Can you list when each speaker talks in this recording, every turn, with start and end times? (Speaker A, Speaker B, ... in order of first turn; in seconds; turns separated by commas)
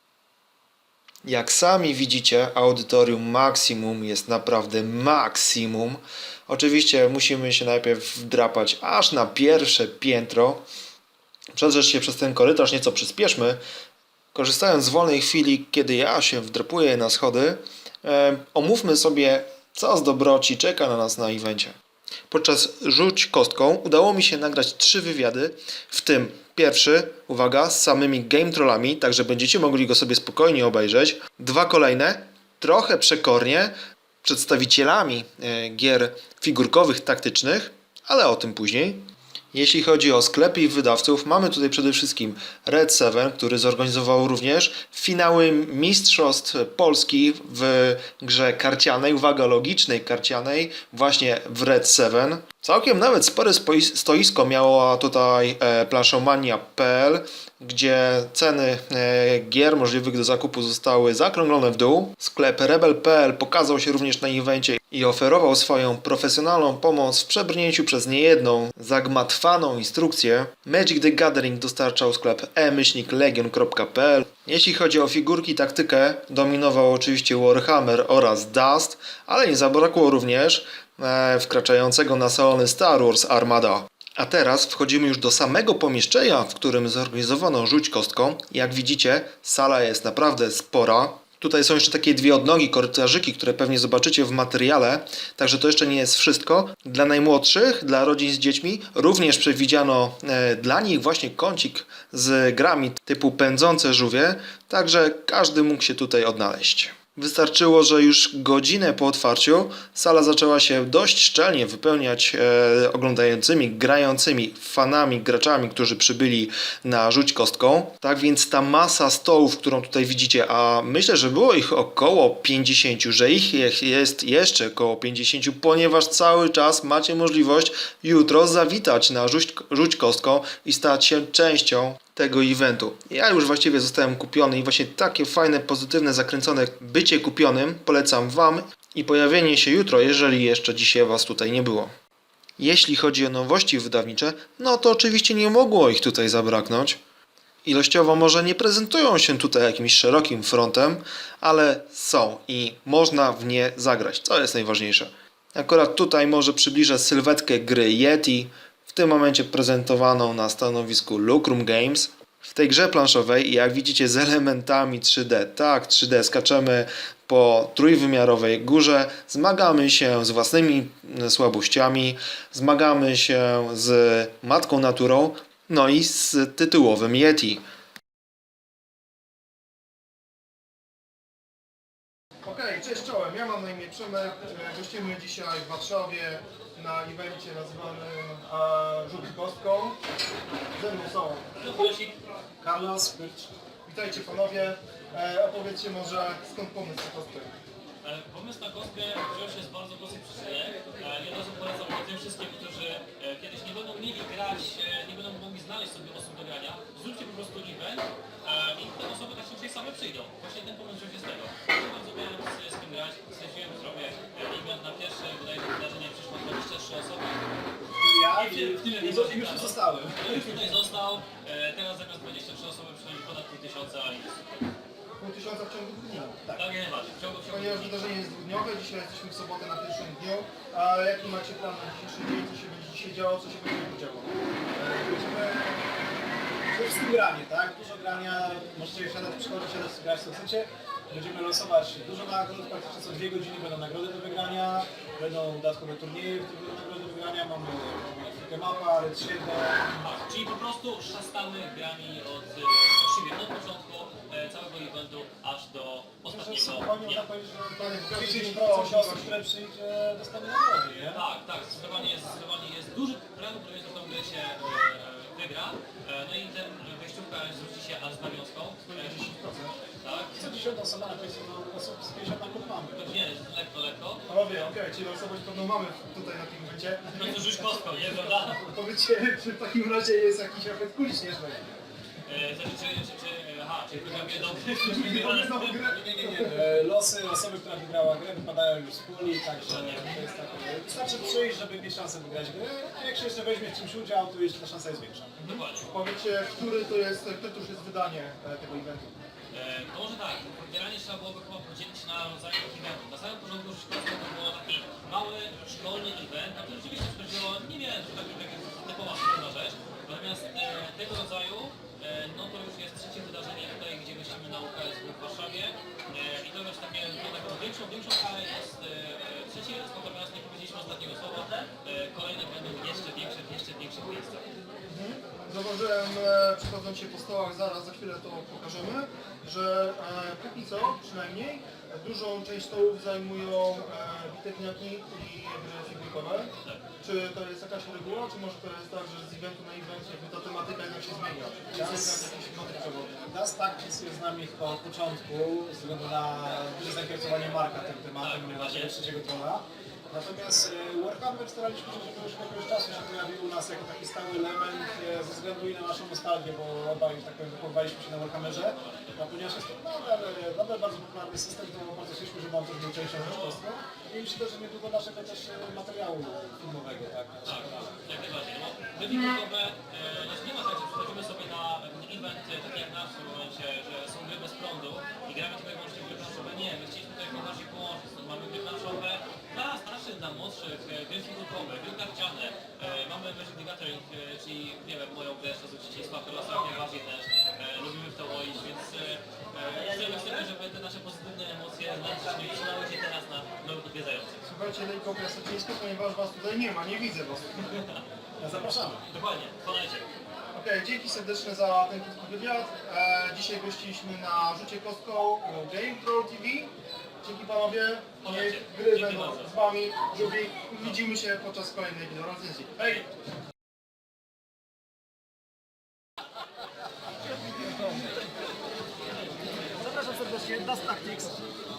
Speaker A: 1.2-10.6, Speaker A: 11.5-13.6, Speaker A: 14.3-21.7, Speaker A: 22.3-141.9, Speaker A: 142.6-147.0, Speaker A: 147.6-177.6, Speaker B: 182.4-190.0, Speaker B: 190.7-191.4, Speaker C: 191.6-192.2, Speaker D: 192.6-193.5, Speaker B: 193.8-197.5, Speaker C: 198.0-217.4, Speaker D: 218.0-220.6, Speaker C: 218.3-224.7, Speaker B: 225.2-226.6, Speaker C: 226.5-228.2, Speaker B: 227.5-234.3, Speaker D: 234.7-235.8, Speaker D: 236.7-250.0, Speaker C: 250.0-257.3, Speaker D: 256.2-261.2, Speaker B: 257.8-259.4, Speaker C: 261.1-269.3, Speaker B: 268.9-269.7, Speaker C: 270.0-270.6, Speaker D: 270.3-273.1, Speaker C: 272.9-274.2, Speaker B: 274.3-281.6, Speaker C: 277.1-278.6, Speaker C: 282.2-285.8, Speaker B: 284.8-286.4, Speaker D: 285.7-295.3, Speaker C: 289.6-290.2, Speaker C: 295.4-295.9, Speaker B: 295.5-299.1, Speaker C: 299.5-324.4, Speaker B: 324.9-336.5, Speaker B: 337.0-343.2, Speaker D: 341.7-342.3, Speaker D: 343.2-367.9, Speaker C: 348.2-348.9, Speaker C: 358.4-359.2, Speaker C: 367.4-394.4, Speaker B: 394.4-397.5, Speaker D: 398.4-399.0, Speaker C: 399.1-400.1, Speaker B: 400.5-413.0, Speaker C: 408.2-409.5, Speaker E: 417.6-418.1, Speaker E: 419.8-421.4